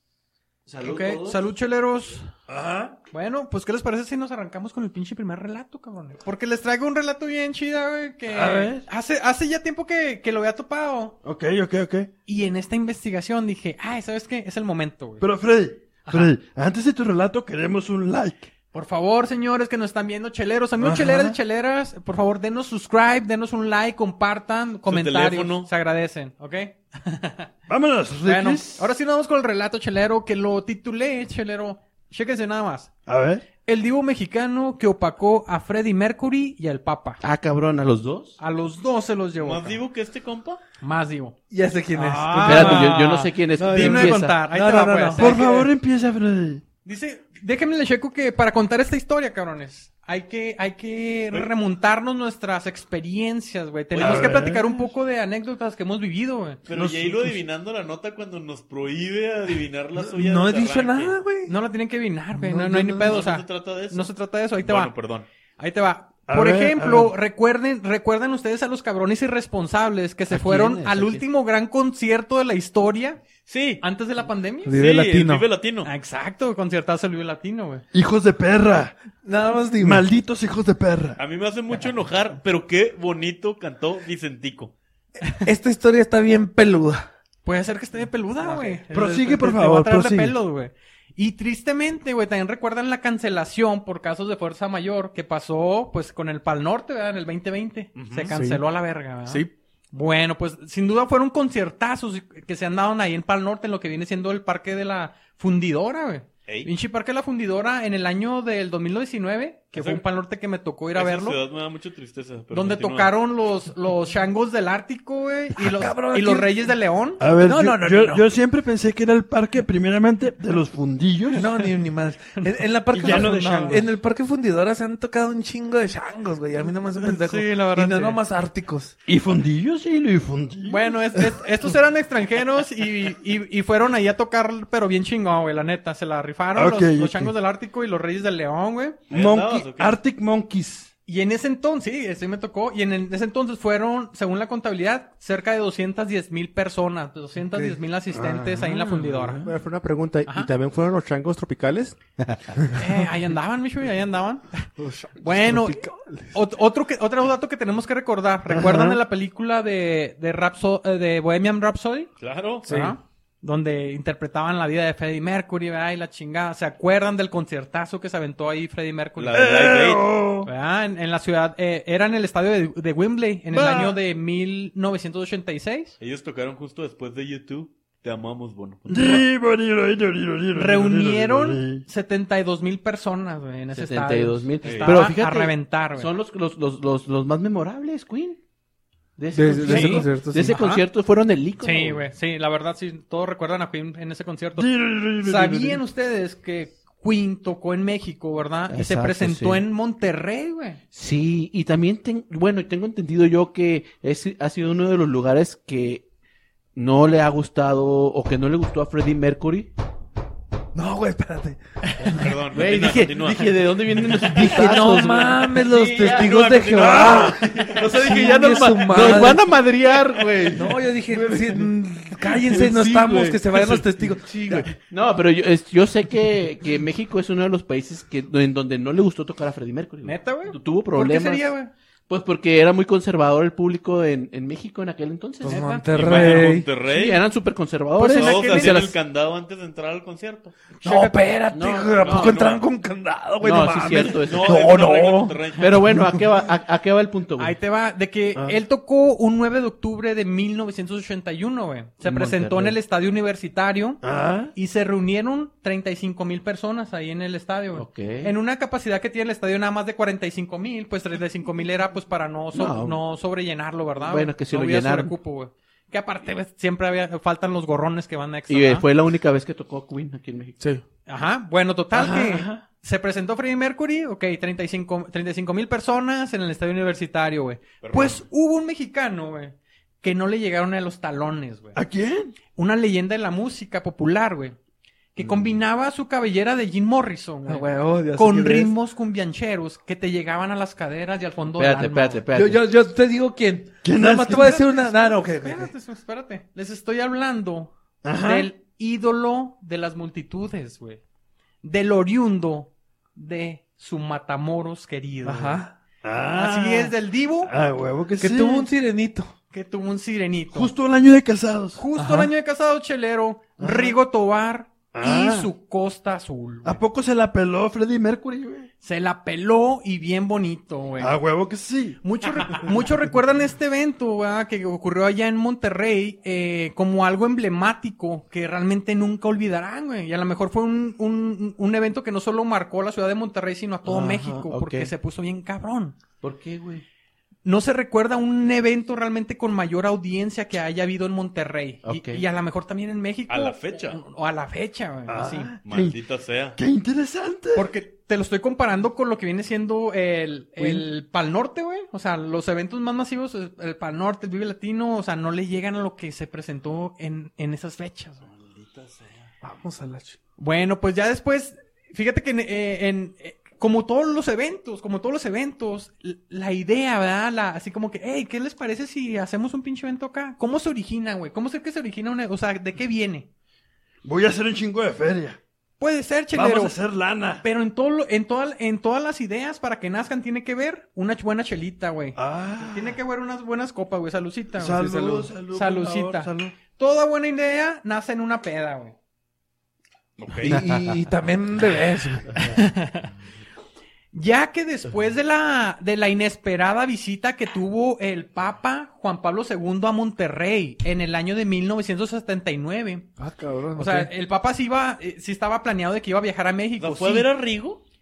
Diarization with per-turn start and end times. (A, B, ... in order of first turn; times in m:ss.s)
0:00.7-0:01.4 A
0:00.8-0:02.3 B
0:02.5-0:03.0 C
0:03.1-0:11.2 B
0:08.3-0:08.9 C
0:11.2-0:12.1 C
0:12.3-0:15.3 B
0:15.2-0:18.5 C
0:16.0-0:16.3 B
0:18.7-0:27.5 B
0:20.8-0:21.4 C
0:24.9-0:25.7 D
0:27.7-0:28.9 C
0:28.2-0:32.9 B
0:33.1-0:33.4 C
0:33.6-0:37.2 B
0:37.2-0:38.4 A
0:38.4-0:39.8 B
0:39.4-0:40.6 D
0:40.8-0:41.4 B
0:41.5-0:45.4 E
0:41.9-0:45.7 B
0:42.4-0:44.4 A
0:45.1-0:46.6 C
0:46.8-0:56.6 B
0:53.9-0:54.6 D
0:54.0-0:54.9 C
0:56.7-1:01.2 D
0:56.7-0:57.4 C
1:00.0-1:01.5 E
1:01.5-1:05.0 B
1:02.4-1:03.2 E
1:03.0-1:05.3 D
1:05.6-1:13.2 B
1:06.3-1:07.1 C
1:10.3-1:11.2 A
1:13.5-1:13.8 D
1:13.8-1:14.8 B
1:14.6-1:15.5 E
1:14.7-1:15.9 D
1:15.8-1:17.8 B
1:17.9-1:19.0 C
1:19.2-1:20.1 E
1:19.8-1:21.2 C
1:21.2-1:24.7 D
1:25.4-1:27.1 E
1:27.4-1:51.4 B
1:28.9-1:30.4 C
1:38.0-1:38.3 D
1:38.3-1:38.6 E
1:49.8-1:50.0 D
1:51.0-1:53.1 D
1:52.5-1:57.2 B
1:55.5-1:56.7 E
1:57.2-2:01.4 C
1:57.4-1:58.3 E
2:01.3-2:01.7 B
2:01.4-2:09.0 E
2:02.4-2:03.8 B
2:02.9-2:03.9 C
2:07.0-2:08.2 B
2:09.1-2:11.5 C
2:10.7-2:19.0 B
2:16.6-2:17.3 C
2:19.1-2:20.0 D
2:19.1-2:20.9 C
2:21.1-2:29.4 B
2:27.5-2:27.8 E
2:28.1-2:29.5 C
2:29.4-2:32.0 F
2:32.7-2:34.7 B
2:34.8-2:36.4 E
2:35.2-2:42.1 B
2:38.5-2:39.0 C
2:42.2-2:42.7 D
2:42.6-2:49.5 B
2:42.7-2:43.0 E
2:49.2-2:50.2 D
2:49.3-2:50.5 C
2:50.4-2:56.0 B
2:53.5-2:54.0 C
2:56.0-2:59.3 D
2:58.9-3:01.8 C
3:00.6-3:06.1 B
3:03.7-3:08.4 A
3:04.6-3:05.0 D
3:09.2-3:12.0 A
3:09.3-3:10.6 E
3:09.6-3:10.9 B
3:11.6-3:20.8 B
3:14.6-3:15.8 C
3:18.7-3:19.6 A
3:20.9-3:26.1 A
3:26.8-3:29.7 A
3:30.7-3:32.3 E
3:32.0-3:33.7 D
3:32.5-3:41.7 A
3:34.2-3:39.5 E
3:36.0-3:38.0 D
3:36.8-3:37.7 C
3:40.5-3:44.7 E
3:42.2-3:51.5 A
3:50.0-3:51.7 B
3:52.1-3:58.9 A
3:55.4-3:56.7 E
3:55.5-3:55.9 B
3:55.9-3:57.2 D
3:58.0-3:58.8 B
3:58.1-4:00.5 D
4:00.8-4:01.3 B
4:00.8-4:06.4 E
4:01.5-4:02.5 A
4:02.0-4:02.6 D
4:03.4-4:04.8 A
4:04.3-4:05.8 D
4:05.6-4:07.6 A
4:07.4-4:14.0 B
4:12.0-4:12.8 A
4:14.0-4:14.5 C
4:14.5-4:28.9 B
4:17.7-4:18.3 A
4:22.5-4:23.0 A
4:24.0-4:25.1 A
4:28.5-4:30.6 A
4:31.1-4:41.8 B
4:32.0-4:32.6 C
4:37.8-4:38.2 D
4:41.7-4:42.4 C
4:42.5-4:44.6 B
4:45.2-4:52.2 B
4:45.2-4:45.5 A
4:47.5-4:48.7 E
4:51.5-4:52.6 A
4:52.3-4:55.7 E
4:53.8-4:54.6 C
4:54.3-5:01.0 B
4:58.0-4:58.5 C
5:01.6-5:05.6 B
5:05.2-5:05.8 E
5:06.0-5:08.7 C
5:06.3-5:07.5 B
5:08.2-5:09.3 E
5:09.5-5:10.7 B
5:10.5-5:11.8 C
5:11.8-5:16.8 B
5:12.0-5:12.3 E
5:13.6-5:14.0 C
5:14.9-5:15.5 C
5:16.6-5:18.7 C
5:18.8-5:21.2 B
5:21.0-5:23.0 C
5:22.0-5:36.0 B
5:33.9-5:34.9 A
5:36.2-5:36.8 A
5:37.4-5:45.5 B
5:41.8-5:42.2 A
5:43.3-5:44.0 D
5:45.1-5:46.0 C
5:45.6-5:46.6 D
5:46.6-5:47.7 C
5:47.5-5:58.3 B
5:58.4-5:59.1 D
5:59.4-6:00.2 E
6:00.4-6:13.3 B
6:14.0-6:15.4 C
6:15.8-6:16.8 B
6:16.3-6:17.4 C
6:17.4-6:24.9 B
6:22.2-6:23.0 C
6:24.6-6:26.6 C
6:24.7-6:25.4 E
6:25.5-6:29.0 B
6:30.2-6:30.6 D
6:30.4-6:32.3 E
6:30.5-6:30.9 A
6:32.4-6:33.1 B
6:34.1-6:43.1 B
6:43.2-6:44.1 E
6:43.8-6:47.3 B
6:46.8-6:47.8 D